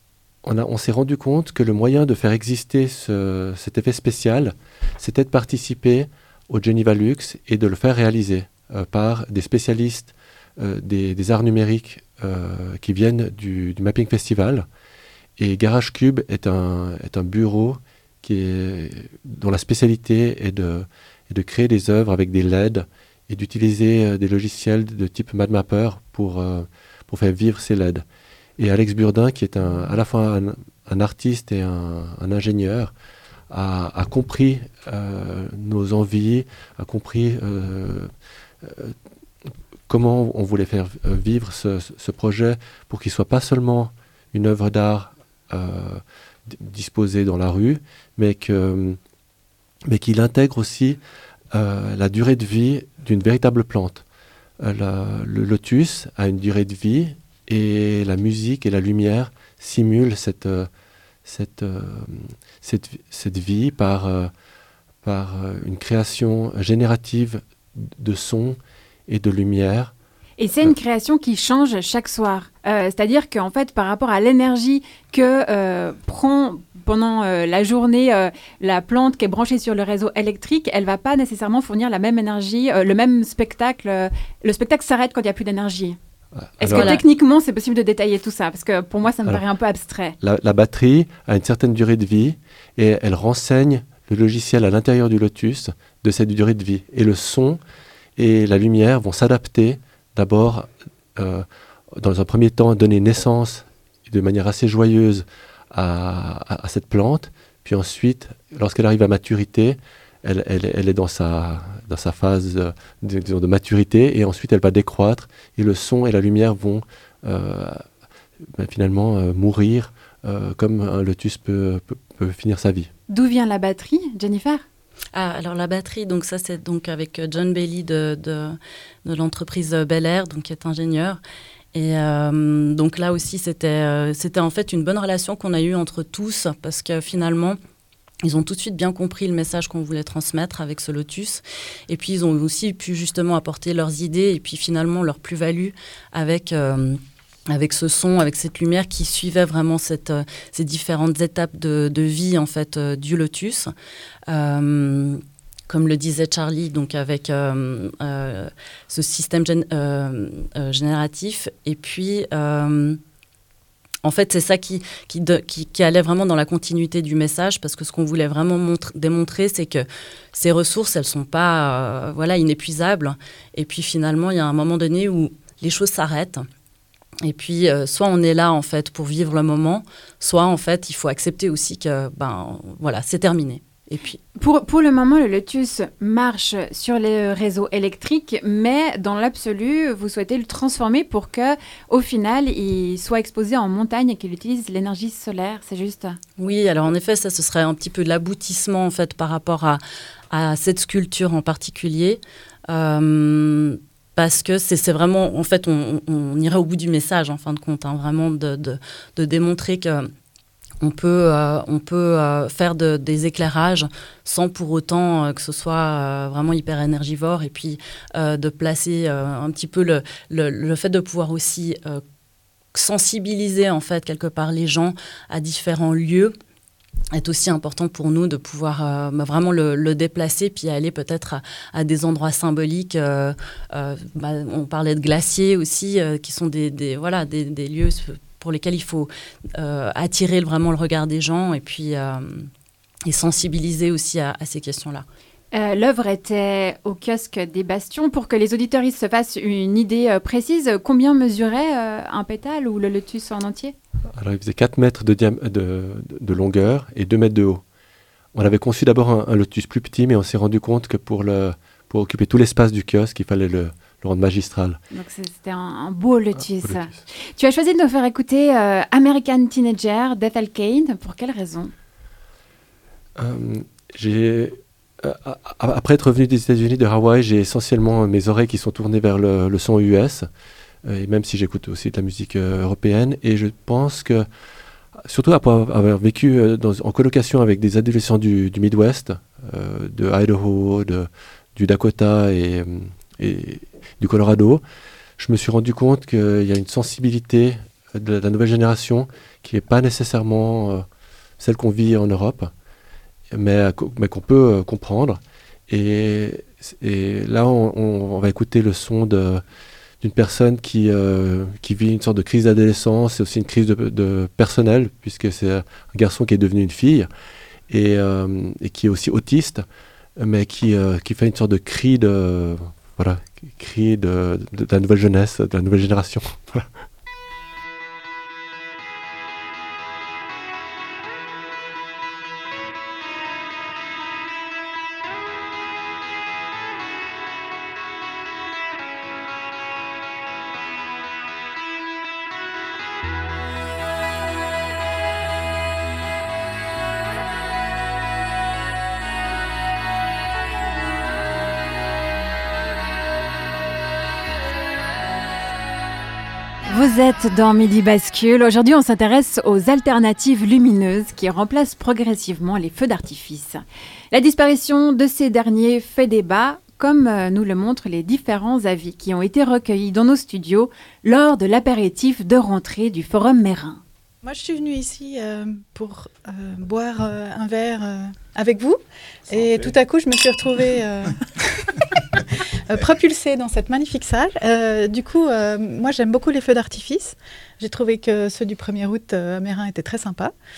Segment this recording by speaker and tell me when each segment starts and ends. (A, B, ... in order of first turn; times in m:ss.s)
0:00.4-0:14.7 A
0:15.4-0:28.0 A
0:28.6-0:32.9 A
0:33.5-0:39.0 A
0:39.9-0:49.0 A
0:49.9-0:51.0 A
0:51.5-0:54.0 A
0:54.6-1:00.7 A
1:01.2-1:04.3 A
1:05.0-1:09.9 A
1:10.4-1:26.0 B
1:26.4-1:27.0 A
1:26.6-1:30.1 B
1:26.7-1:27.0 C
1:30.2-1:37.6 A
1:38.2-1:57.8 A
1:58.4-2:02.9 A
2:03.1-2:04.6 B
2:05.1-2:11.2 C
2:11.7-2:17.6 C
2:18.2-2:33.7 C
2:34.3-2:43.0 C
2:44.0-2:56.4 C
2:57.2-3:04.2 C
3:04.4-3:16.2 B
3:16.4-3:19.8 C
3:20.3-3:30.1 C
3:30.8-3:42.0 C
3:42.7-3:46.4 C
3:47.1-4:02.5 C
4:03.0-4:05.0 C
4:05.5-4:13.8 B
4:14.1-4:17.6 A
4:18.3-4:24.8 A
4:24.9-4:31.7 B
4:26.6-4:27.0 A
4:33.2-4:40.3 A
4:40.8-4:44.2 A
4:45.0-4:54.6 A
4:55.2-5:00.8 A
5:01.4-5:02.5 A
5:03.3-5:09.4 A
5:10.0-5:17.1 A
5:17.7-5:19.6 A
5:20.2-5:26.7 A
5:56.7-6:13.8 B
6:14.2-6:21.2 D
6:22.7-6:30.3 D